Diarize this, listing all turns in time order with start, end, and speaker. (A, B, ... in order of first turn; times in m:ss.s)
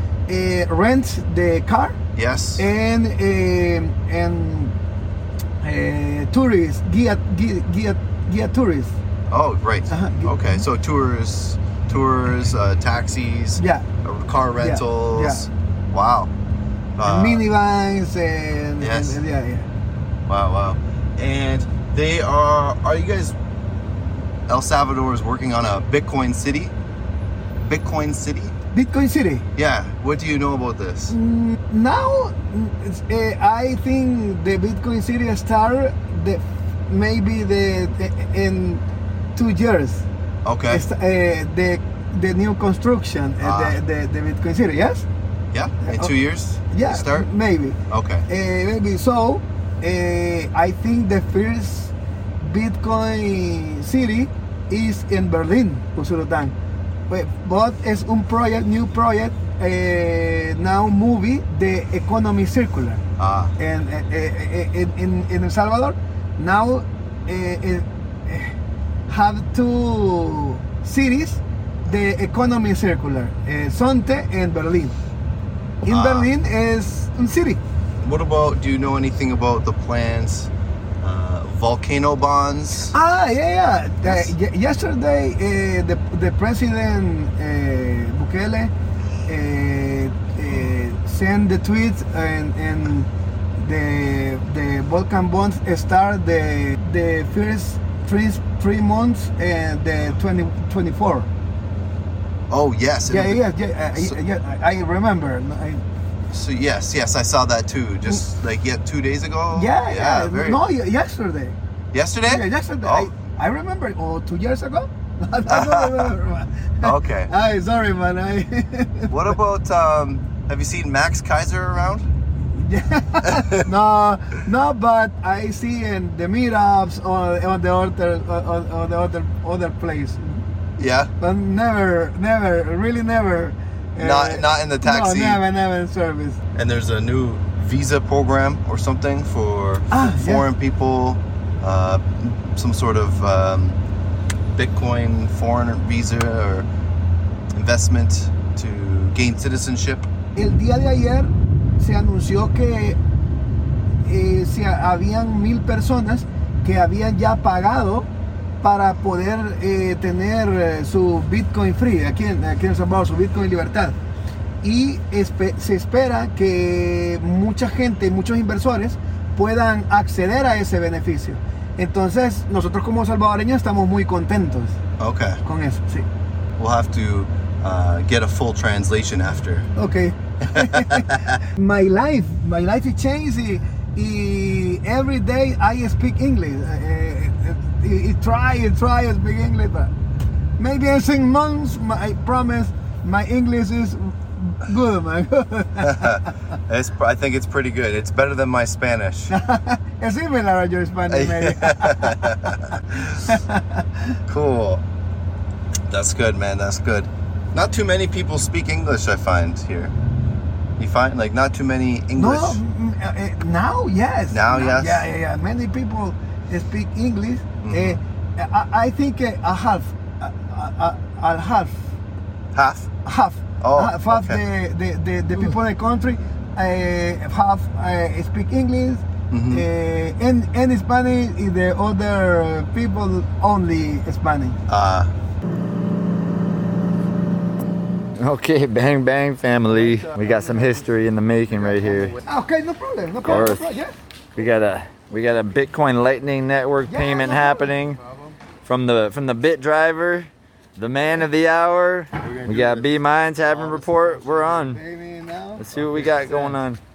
0:00.3-0:02.0 A
0:02.2-0:02.6 B
0:02.6-0:04.7 A
0:05.6-0:09.0 A
0:09.3-0:16.3 B
0:09.9-0:10.6 A
0:13.6-0:13.9 A
0:14.6-0:15.5 A
0:17.0-0:17.4 B
0:17.0-0:19.7 A
0:18.8-0:19.2 B
0:20.3-0:23.4 B
0:24.5-0:26.7 B
0:27.6-0:28.5 B
0:28.7-0:29.5 A
0:29.6-0:31.2 B
0:31.1-0:38.8 A
0:39.4-0:40.0 A
0:40.4-0:40.8 B
0:40.7-0:45.0 A
0:43.4-0:43.8 B
0:45.5-0:47.3 B
0:45.8-0:46.1 A
0:46.7-0:56.5 A
0:47.9-0:48.2 B
0:57.1-1:03.0 A
1:03.2-1:03.5 B
1:03.6-1:08.5 A
1:09.1-1:15.0 A
1:15.8-1:17.6 A
1:15.9-1:16.3 B
1:18.0-1:20.5 B
1:21.0-1:22.9 B
1:22.9-1:28.7 A
1:24.0-1:24.3 B
1:29.3-1:41.3 A
1:42.5-1:43.4 B
1:43.1-1:45.8 A
1:46.3-1:50.6 B
1:49.5-1:51.6 A
1:51.9-1:53.1 B
1:52.2-1:59.3 A
1:55.5-1:56.1 B
1:56.8-1:57.3 B
1:59.1-2:02.0 B
2:02.5-2:10.4 A
2:03.2-2:03.5 B
2:10.8-2:11.1 B
2:11.2-2:16.4 A
2:14.0-2:15.4 B
2:16.5-2:23.8 B
2:19.9-2:20.5 A
2:24.5-2:26.7 B
2:27.5-2:30.0 B
2:30.4-2:33.0 A
2:34.0-2:38.1 A
2:38.6-2:44.0 A
2:44.6-2:54.8 A
2:55.0-2:55.4 B
2:55.4-2:56.0 A
2:56.6-2:59.7 B
2:59.7-3:09.9 A
3:00.5-3:01.4 B
3:10.6-3:16.2 A
3:15.8-3:19.3 B
3:19.3-3:23.8 A
3:21.1-3:22.8 B
3:24.3-3:24.8 B
3:25.9-3:29.9 B
3:30.8-3:32.6 B
3:32.2-3:41.8 A
3:34.3-3:35.1 B
3:37.6-3:38.0 B
3:42.5-3:42.9 B
3:43.0-3:54.6 A
3:43.6-3:44.4 B
3:49.3-3:49.6 B
3:54.7-3:55.1 B
3:58.2-4:02.1 C
3:59.7-4:00.9 B
4:01.5-4:02.2 B
4:02.2-4:03.9 A
4:03.2-4:03.7 C
4:04.3-4:08.0 C
4:06.9-4:07.8 A
4:08.0-4:08.3 B
4:08.6-4:14.8 C
4:12.2-4:14.6 B
4:14.5-4:15.7 A
4:15.6-4:16.8 C
4:15.7-4:16.6 B